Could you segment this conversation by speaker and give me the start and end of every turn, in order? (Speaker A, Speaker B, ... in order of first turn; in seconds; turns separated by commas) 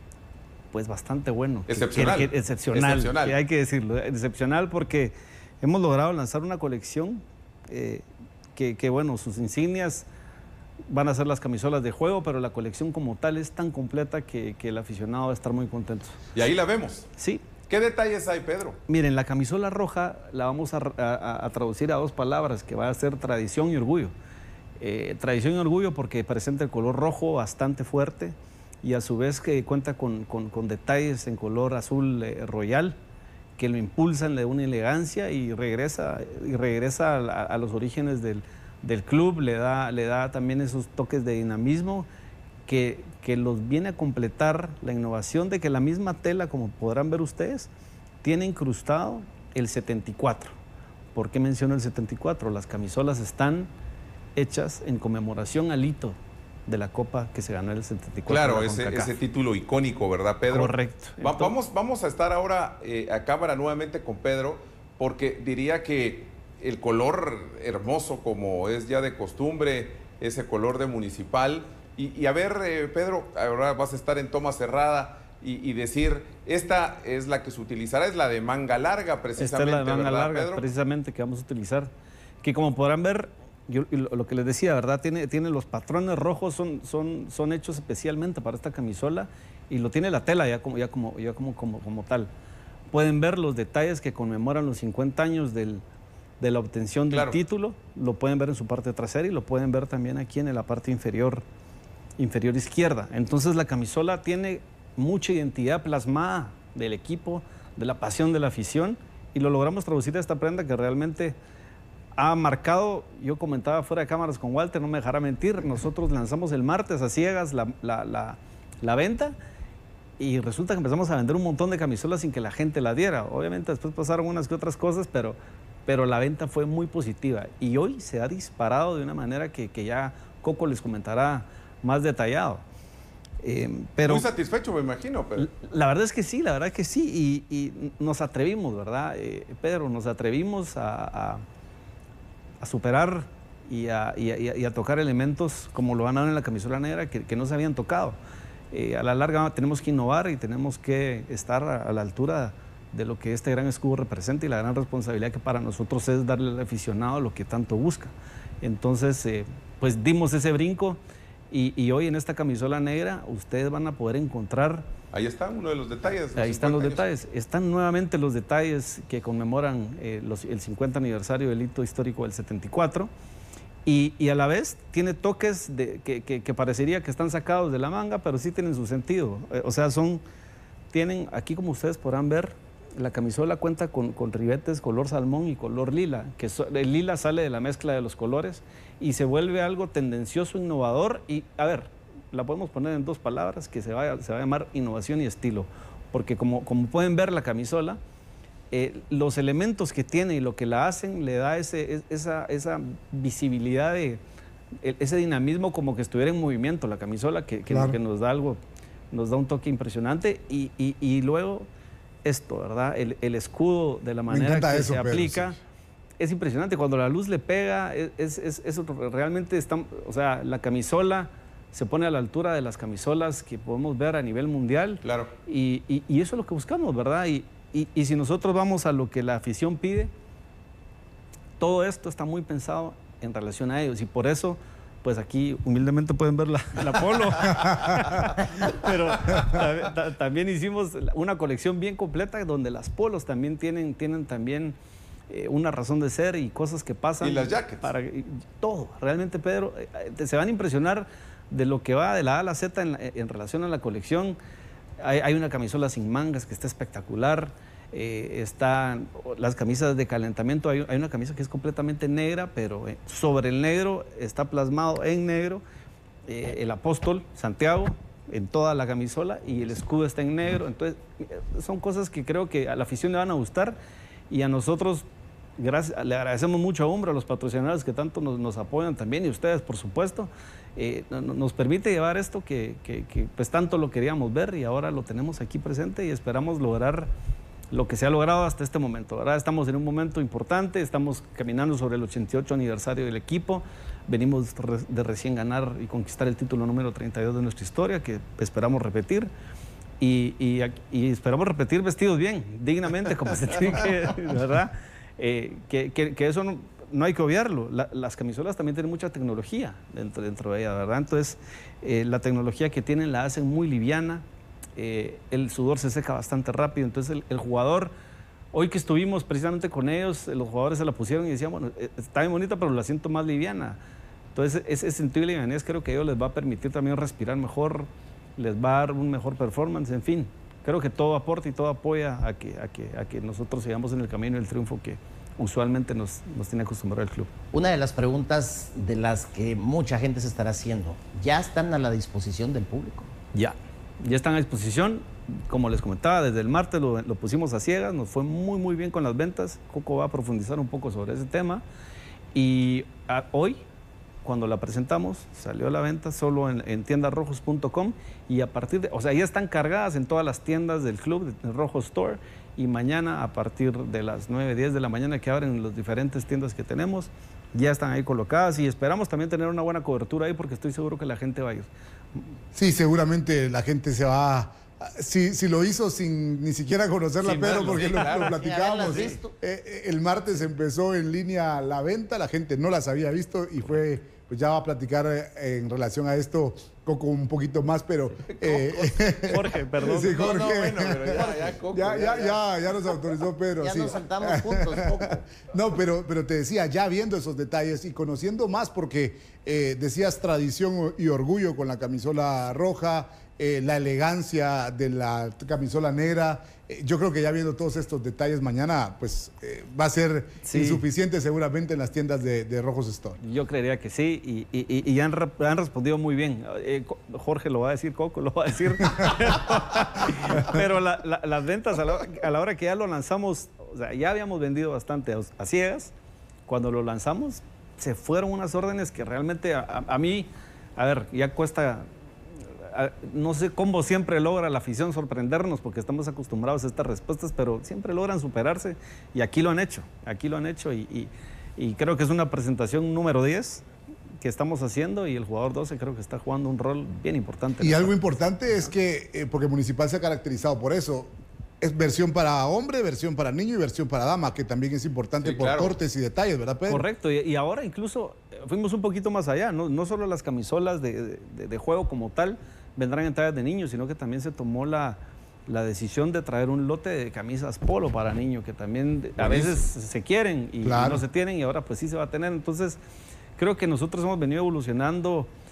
Speaker A: 0.7-10.1, Speaker B: 1.7-3.4, Speaker A: 10.9-16.2, Speaker B: 16.3-17.1, Speaker A: 17.2-17.5, Speaker B: 17.7-18.8, Speaker A: 18.9-24.1, Speaker A: 24.8-33.0, Speaker A: 33.6-42.1, Speaker A: 42.7-47.7, Speaker A: 48.2-50.5, Speaker A: 51.1-53.7, Speaker A: 54.4-59.1, Speaker B: 58.3-80.7, Speaker A: 60.5-61.5, Speaker A: 79.4-92.3, Speaker A: 92.9-95.8, Speaker A: 96.4-101.4, Speaker B: 97.1-97.4, Speaker A: 102.2-111.4, Speaker A: 112.2-119.4, Speaker A: 120.2-132.6, Speaker A: 133.4-134.3, Speaker B: 134.1-135.5, Speaker A: 135.4-141.4, Speaker A: 142.6-148.2, Speaker A: 148.7-161.0, Speaker A: 161.5-164.9, Speaker B: 165.1-167.1, Speaker A: 166.4-173.1, Speaker A: 173.9-180.2, Speaker A: 180.9-198.0, Speaker A: 198.7-204.2, Speaker A: 204.8-208.6, Speaker C: 207.7-208.0, Speaker A: 209.1-211.7, Speaker A: 212.2-215.6, Speaker C: 214.3-215.6, Speaker A: 216.2-230.1, Speaker B: 225.0-225.3, Speaker A: 231.6-244.8, Speaker A: 245.3-254.4, Speaker B: 247.2-247.9, Speaker A: 255.0-265.6, Speaker A: 266.3-273.8, Speaker A: 274.3-275.1, Speaker A: 275.6-287.1, Speaker A: 287.7-299.3, Speaker A: 300.0-314.2, Speaker A: 314.8-317.9, Speaker A: 318.5-323.8, Speaker A: 324.4-337.3, Speaker D: 337.5-343.1, Speaker A: 343.3-351.6, Speaker A: 352.3-353.6, Speaker A: 354.2-372.3, Speaker C: 372.5-413.2, Speaker B: 377.2-379.2, Speaker D: 377.7-379.3, Speaker B: 388.3-389.2, Speaker A: 389.3-390.4, Speaker B: 390.0-392.4, Speaker D: 393.6-395.2, Speaker A: 410.4-410.8, Speaker A: 413.2-425.9, Speaker A: 426.5-431.9, Speaker A: 432.6-443.6, Speaker A: 444.2-448.0, Speaker C: 447.6-456.8, Speaker B: 455.2-455.8, Speaker A: 456.7-472.8, Speaker C: 469.2-469.6, Speaker C: 470.6-471.1, Speaker A: 473.4-475.3